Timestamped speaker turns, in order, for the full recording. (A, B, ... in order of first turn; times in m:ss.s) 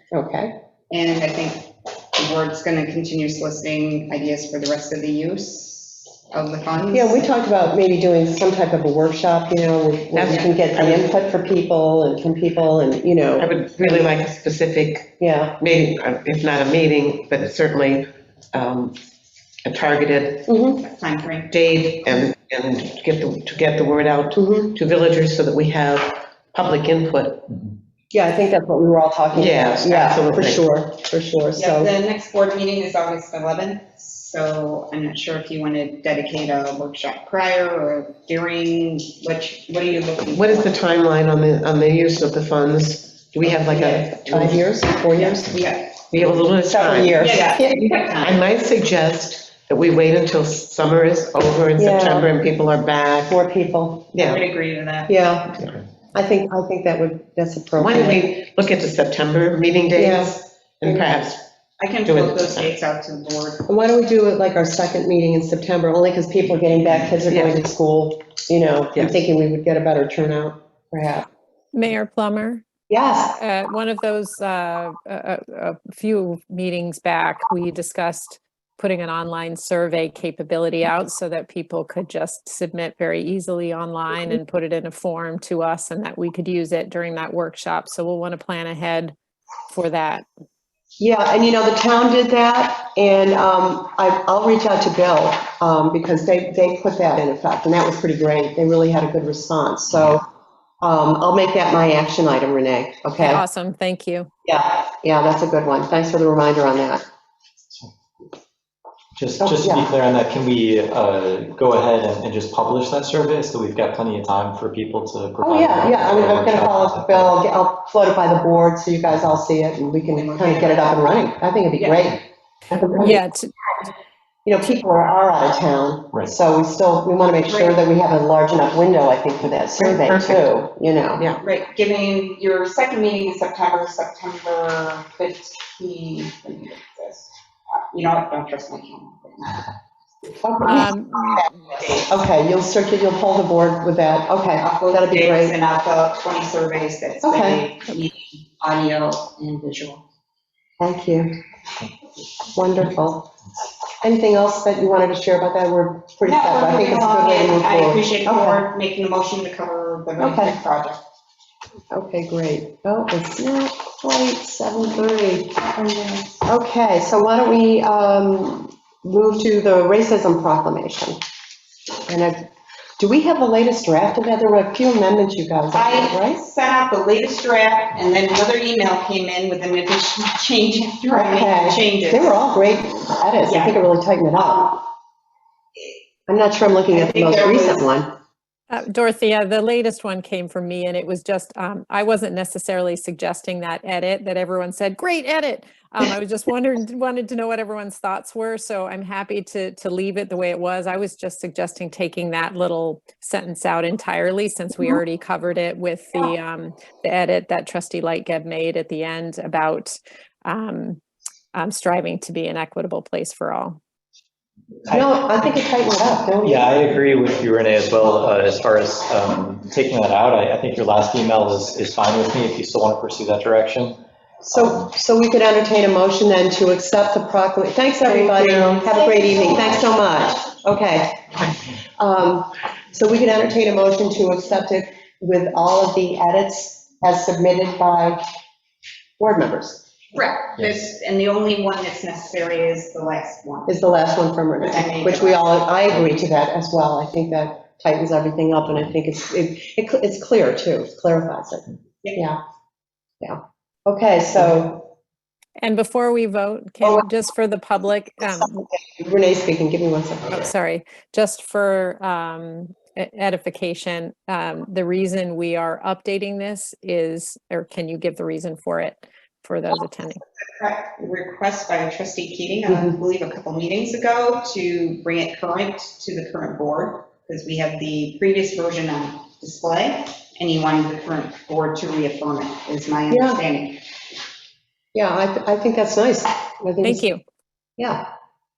0:00.1-0:00.5 A
0:00.9-0:07.3 B
0:06.9-0:14.1 A
0:10.1-0:11.0 C
0:13.4-0:19.0 C
0:15.2-0:15.6 A
0:19.6-0:20.5 C
0:20.5-0:20.8 A
0:20.8-0:21.6 B
0:21.5-0:27.5 C
0:24.3-0:24.7 A
0:28.1-0:31.9 A
0:29.4-0:30.6 C
0:31.5-0:40.7 B
0:40.3-0:44.5 C
0:43.5-0:44.6 B
0:43.8-0:45.6 A
0:45.1-0:46.0 B
0:46.1-0:47.2 C
0:46.2-0:47.9 A
0:47.2-0:48.4 B
0:48.2-0:53.4 C
0:51.8-0:52.3 A
0:53.3-0:54.2 A
0:54.2-0:55.1 B
0:55.1-0:58.3 A
0:57.8-1:01.4 C
0:59.9-1:01.1 A
1:01.8-1:03.6 B
1:02.0-1:02.7 C
1:03.7-1:11.2 A
1:11.7-1:12.6 D
1:12.9-1:13.4 A
1:13.3-1:29.2 D
1:29.7-1:30.2 D
1:31.0-1:40.2 A
1:40.8-1:43.4 A
1:43.2-1:44.3 D
1:44.4-1:47.0 A
1:49.2-1:57.3 E
1:49.4-1:49.9 A
1:55.4-2:03.2 A
2:00.2-2:01.1 B
2:01.8-2:02.1 B
2:03.0-2:03.5 D
2:04.4-2:11.2 A
2:07.5-2:07.8 B
2:09.8-2:10.4 C
2:11.4-2:17.3 B
2:17.9-2:19.7 B
2:20.4-2:21.4 A
2:20.6-2:21.5 D
2:22.0-2:25.6 A
2:24.6-2:30.0 B
2:27.2-2:27.6 A
2:30.8-2:31.3 A
2:32.5-2:33.3 A
2:34.0-2:38.6 A
2:36.3-2:41.0 B
2:40.2-2:40.5 A
2:41.9-2:45.5 A
2:45.5-2:46.4 B
2:46.5-2:51.2 A
2:52.1-2:52.5 A
2:53.0-2:56.4 A
2:55.7-3:02.4 B
3:01.1-3:04.8 A
3:03.4-3:03.8 B
3:04.4-3:04.8 B
3:06.3-3:08.1 A
3:06.9-3:07.9 B
3:08.7-3:31.0 D
3:31.5-3:33.8 D
3:34.9-3:36.9 A
3:36.4-3:44.0 E
3:44.4-3:58.2 A
3:48.6-3:48.9 C
3:59.2-3:59.8 A
4:00.1-4:03.7 B
4:03.7-4:12.4 A
4:04.6-4:05.4 B
4:13.2-4:14.9 A
4:15.6-4:18.6 D
4:18.7-4:20.4 A
4:20.3-4:30.2 D
4:30.5-4:43.8 B
4:32.7-4:33.0 A
4:43.1-4:43.4 A
4:44.9-4:47.1 A
4:46.8-4:47.2 D
4:47.8-4:48.0 A